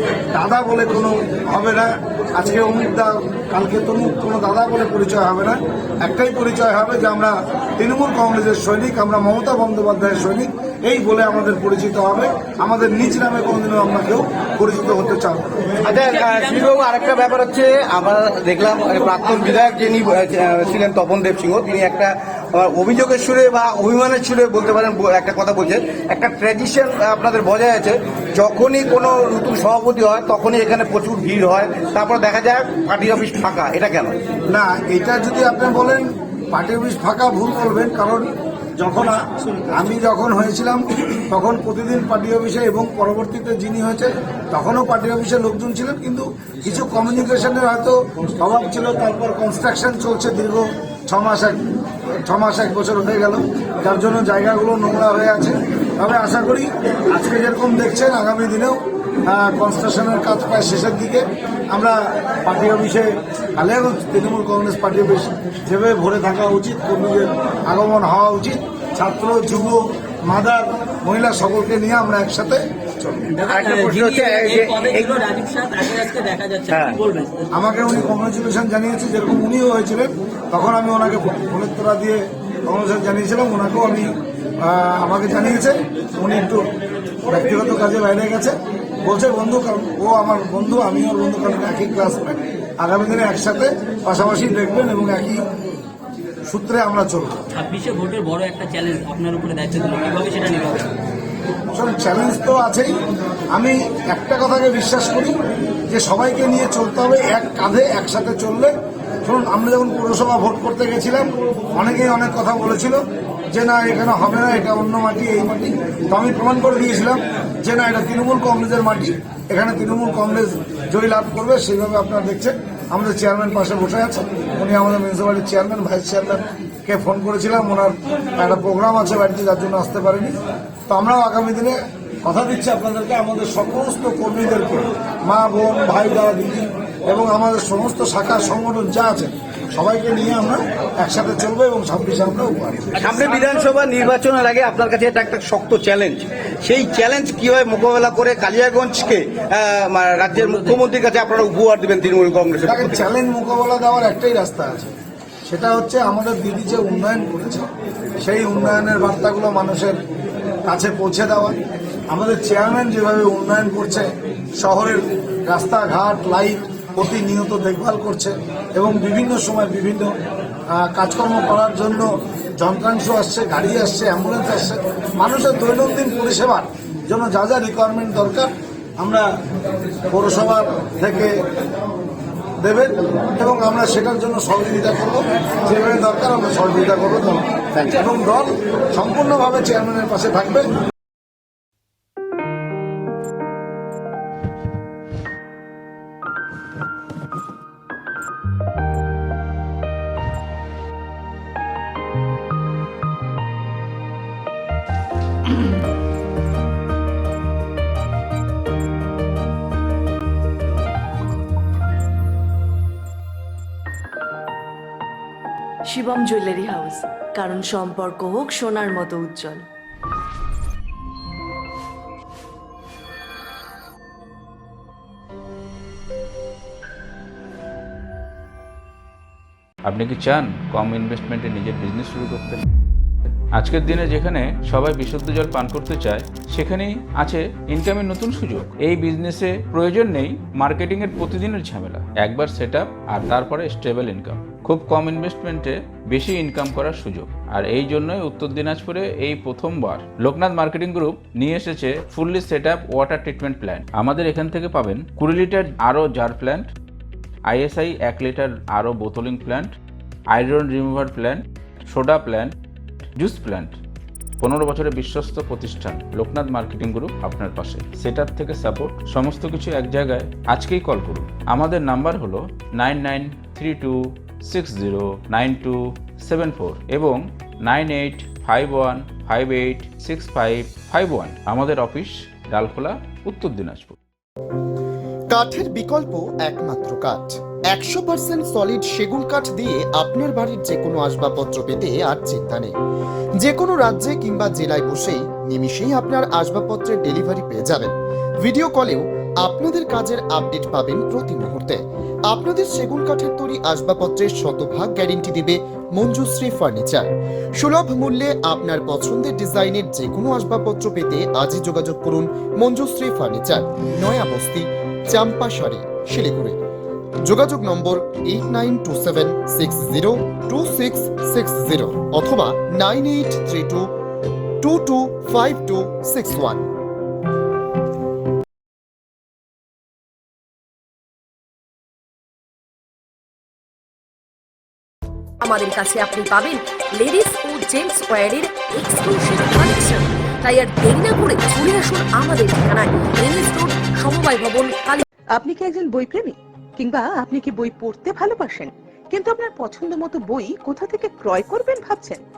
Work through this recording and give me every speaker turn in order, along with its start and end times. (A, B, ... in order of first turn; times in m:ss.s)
0:00.3-0:15.5 A
0:15.8-0:34.1 B
0:34.5-0:39.2 A
0:39.7-0:51.6 A
0:52.2-1:14.1 A
1:13.3-1:17.4 C
1:13.5-1:15.2 B
1:16.7-1:17.0 B
1:17.5-1:26.6 A
1:27.3-1:35.4 A
1:36.5-1:37.4 A
1:37.5-1:40.9 C
1:41.7-1:42.9 A
1:43.5-1:45.3 A
1:45.9-1:48.7 A
1:49.2-2:10.4 A
2:10.9-2:23.0 A
2:23.0-2:33.1 B
2:32.6-2:34.9 A
2:35.5-2:37.7 A
2:38.2-2:40.0 A
2:40.6-2:41.6 A
2:42.1-2:44.1 A
2:44.6-2:50.1 A
2:50.7-2:59.2 A
3:00.1-3:01.3 A
3:02.6-3:10.7 A
3:35.8-3:39.6 D
3:49.8-3:52.6 E
3:53.5-4:16.7 E
4:17.5-4:19.7 E
4:20.3-4:22.5 E
4:23.2-4:23.7 E
4:24.4-4:44.0 E
4:45.3-4:52.7 F
4:53.4-5:07.1 F
5:07.6-5:16.6 F
5:17.2-5:23.9 F
5:24.6-5:26.7 F
5:35.4-5:45.0 G
5:45.4-5:52.2 H